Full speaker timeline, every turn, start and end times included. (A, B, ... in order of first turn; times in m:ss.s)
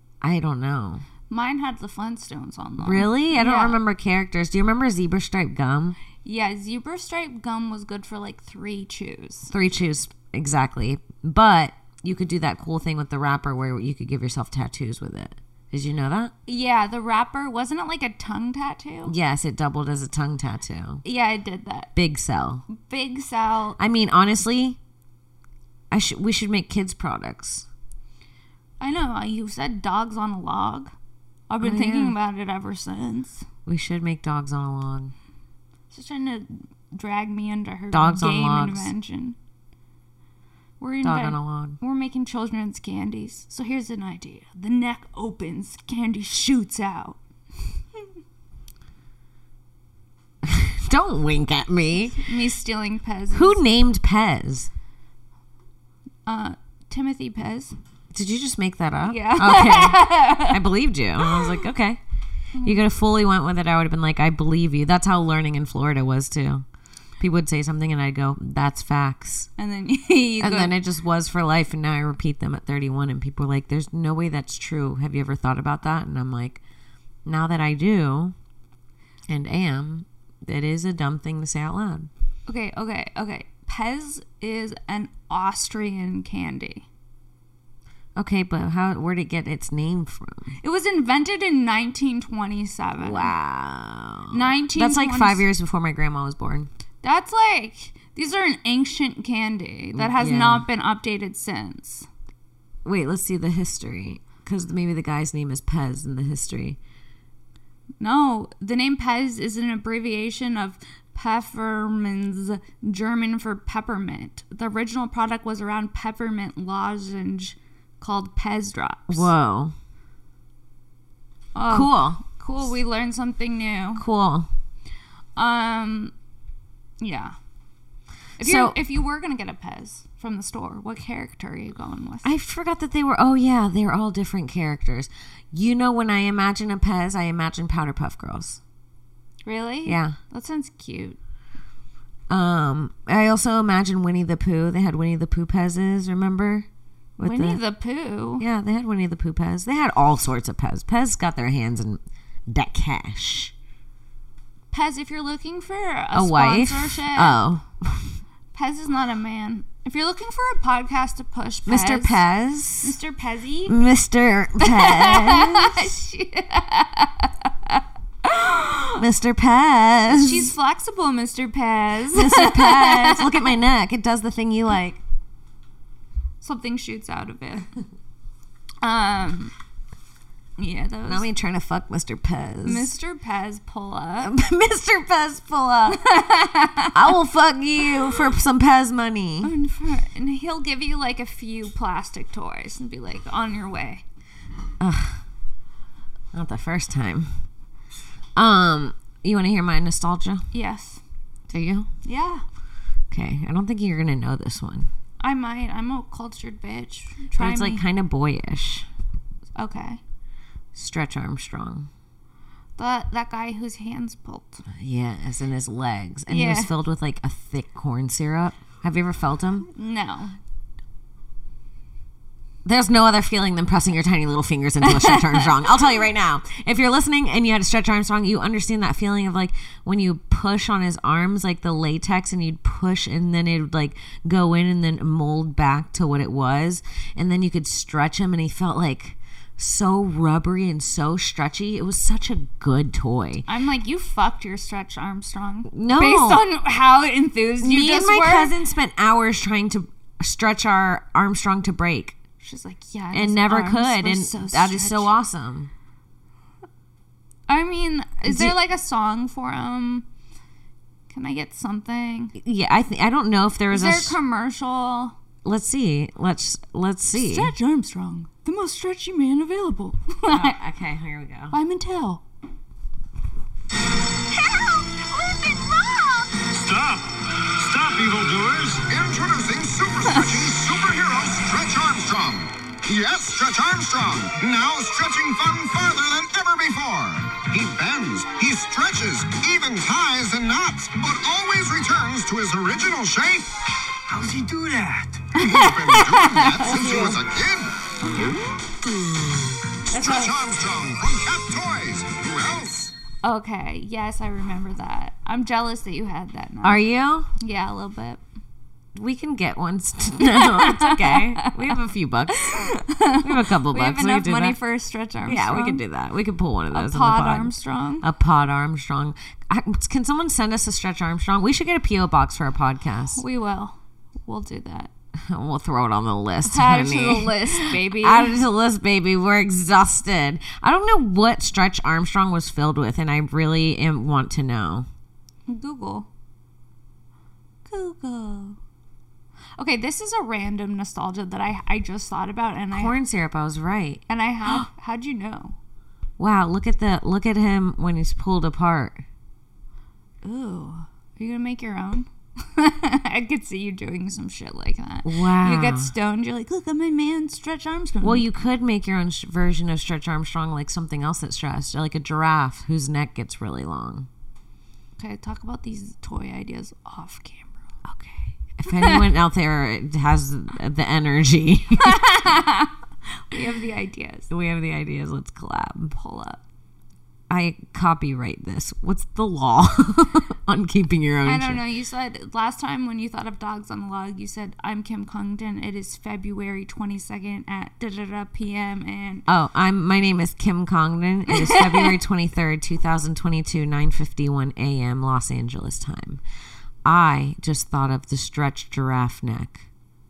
0:00.2-0:01.0 A
0:01.3-0:03.8 B
0:02.8-0:06.0 A
0:06.2-0:09.5 B
0:09.5-0:16.3 A
0:16.5-0:19.1 B
0:19.0-0:21.0 A
0:21.0-0:21.9 B
0:22.0-0:22.6 A
0:22.7-0:23.8 B
0:23.8-0:24.8 A
0:25.9-0:27.6 A
0:28.8-0:30.9 B
0:31.5-0:33.4 B
0:31.6-0:32.1 A
0:33.6-0:35.1 A
0:35.9-0:39.4 B
0:37.9-0:38.9 A
0:40.8-0:48.1 B
0:41.0-0:41.8 A
0:50.4-0:52.3 A
0:52.1-0:53.6 B
0:53.3-0:54.7 A
0:56.3-0:57.8 B
0:58.1-1:02.0 A
0:59.0-1:00.6 B
1:01.2-1:01.6 B
1:02.6-1:06.6 A
1:07.2-1:09.5 A
1:09.6-1:10.8 B
1:10.4-1:16.6 A
1:17.3-1:18.4 A
1:19.3-1:22.1 A
1:22.5-1:26.9 B
1:28.2-1:30.5 A
1:30.6-1:33.3 B
1:33.0-1:36.7 A
1:34.3-1:35.5 B
1:37.0-1:42.1 B
1:40.0-1:40.6 A
1:42.8-1:46.8 A
1:48.0-1:59.3 B
1:59.1-1:59.7 A
2:01.6-2:04.0 B
2:01.7-2:02.2 A
2:04.0-2:04.5 A
2:05.4-2:06.1 B
2:07.0-2:07.4 B
2:08.4-2:12.3 B
2:08.4-2:08.8 A
2:12.2-2:18.6 A
2:19.4-2:21.2 B
2:19.8-2:20.2 A
2:22.3-2:27.6 A
2:27.2-2:28.4 B
2:28.4-2:33.5 A
2:34.7-2:37.4 B
2:36.1-2:38.2 A
2:38.5-2:42.2 B
2:41.6-2:43.0 A
2:42.8-2:43.8 B
2:43.7-2:45.9 A
2:44.6-2:49.0 B
2:49.0-2:50.5 A
2:50.1-2:53.5 B
2:52.1-2:55.0 A
2:56.4-2:57.7 B
2:58.8-2:59.5 B
3:00.6-3:01.3 B
3:01.1-3:02.9 A
3:02.6-3:04.3 B
3:04.2-3:06.1 A
3:05.9-3:07.1 B
3:06.9-3:09.5 A
3:09.4-3:14.0 B
3:14.8-3:15.2 A
3:16.3-3:17.3 A
3:18.4-3:20.5 A
3:20.5-3:21.0 B
3:21.5-3:21.9 A
3:22.0-3:22.4 B
3:23.1-3:24.9 A
3:25.2-3:27.8 B
3:27.4-3:28.9 A
3:29.6-3:30.0 B
3:30.8-3:31.9 A
3:32.8-3:34.6 B
3:34.7-3:39.7 A
3:36.3-3:36.7 B
3:39.8-3:40.4 B
3:42.6-4:03.5 A
3:44.9-3:45.4 B
4:03.5-4:08.5 B
4:05.7-4:06.4 A
4:07.6-4:12.2 A
4:12.4-4:15.1 B
4:13.1-4:15.7 A
4:17.5-4:20.1 B
4:18.2-4:18.6 A
4:21.1-4:22.4 B
4:22.4-4:24.2 A
4:23.7-4:25.2 B
4:25.4-4:27.5 A
4:27.1-4:30.6 B
4:30.3-4:31.6 A
4:31.5-4:32.2 B
4:34.3-4:36.3 B
4:36.4-4:38.9 C
4:38.8-4:53.5 D
4:40.1-4:40.5 B
4:54.1-4:55.3 C
4:55.4-4:57.8 D
4:55.4-4:57.2 B
4:56.8-4:57.1 A
4:58.1-4:58.4 B
4:59.9-5:02.9 D
4:59.9-5:00.4 A
5:03.2-5:06.8 B
5:06.6-5:07.3 A
5:07.4-5:08.2 B
5:08.9-5:14.6 A
5:10.2-5:11.7 B
5:12.4-5:15.8 B
5:15.2-5:23.2 A
5:16.7-5:18.1 B
5:23.2-5:24.9 B
5:25.2-5:34.9 A
5:26.4-5:28.4 B
5:35.5-5:36.1 B
5:37.6-5:38.6 B
5:39.6-5:42.9 B
5:42.7-5:44.0 A
5:44.1-5:45.6 B
5:46.2-5:49.0 A
5:50.2-5:58.3 B
5:55.0-5:55.9 A
5:58.0-6:04.1 A
6:05.0-6:08.2 B
6:08.6-6:12.0 A
6:08.8-6:09.0 B
6:11.8-6:12.7 B
6:13.3-6:14.3 B
6:14.3-6:15.9 A
6:15.9-6:16.4 B
6:17.3-6:21.6 A
6:21.2-6:29.2 B
6:29.3-6:36.2 A
6:31.3-6:31.9 B
6:36.8-6:39.6 A